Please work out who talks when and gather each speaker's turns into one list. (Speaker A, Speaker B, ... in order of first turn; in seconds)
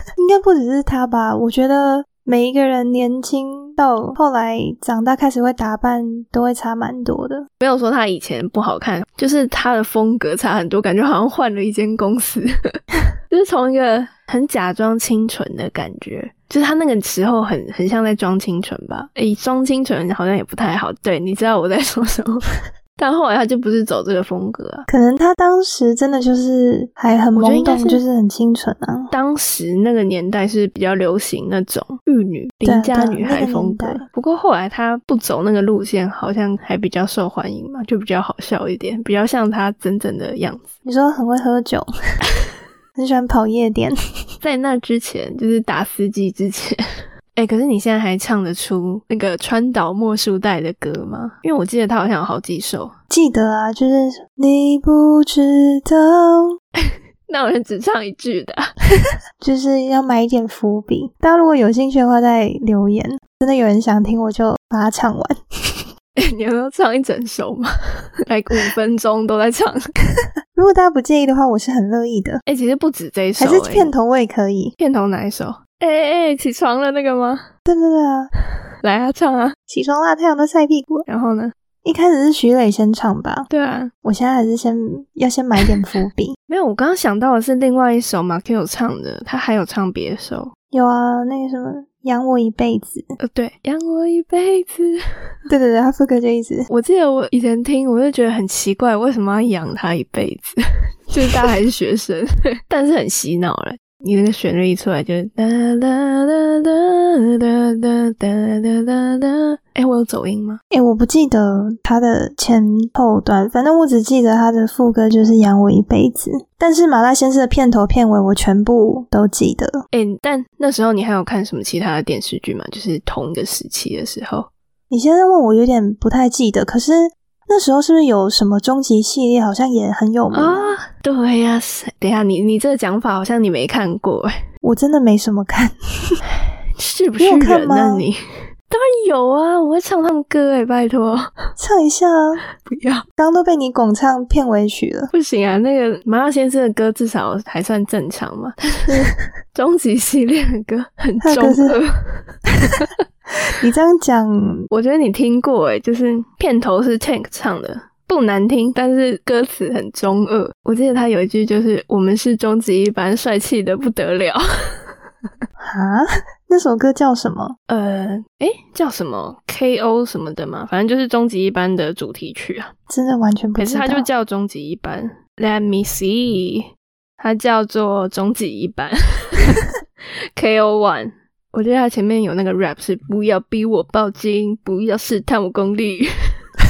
Speaker A: 0.2-7.5, 24.9-29.1, 32.6-34.0, 40.8-41.9, 43.0-43.9, 53.1-56.6, 59.4-65.9, 70.5-72.4, 73.4-74.7, 77.7-78.3, 79.7-81.0, 81.8-83.5, 84.0-86.3, 90.7-93.1, 95.5-96.7, 110.7-119.8, 124.9-130.7, 134.6-136.2, 137.2-138.1, 141.6-142.4, 143.2-145.1, 151.2-151.8, 153.4-154.7, 165.6-167.6, 172.9-174.1
Speaker B: 7.6-12.5, 13.3-22.4, 22.9-24.9, 27.3-28.0, 29.1-40.7, 44.4-46.8, 47.3-52.9, 56.8-58.7, 66.2-67.7, 68.3-69.9, 72.5-73.9, 74.8-77.5, 78.8-79.5, 81.0-81.5, 83.5-83.9, 86.5-90.5, 93.2-95.0, 96.7-100.6, 101.1-110.6, 119.9-124.5, 130.3-134.3, 136.8-138.2, 138.7-141.3, 142.6-143.0, 145.1-152.9, 154.7-164.4, 167.7-172.7, 173.6-176.7, 177.2-179.7, 180.3-186.1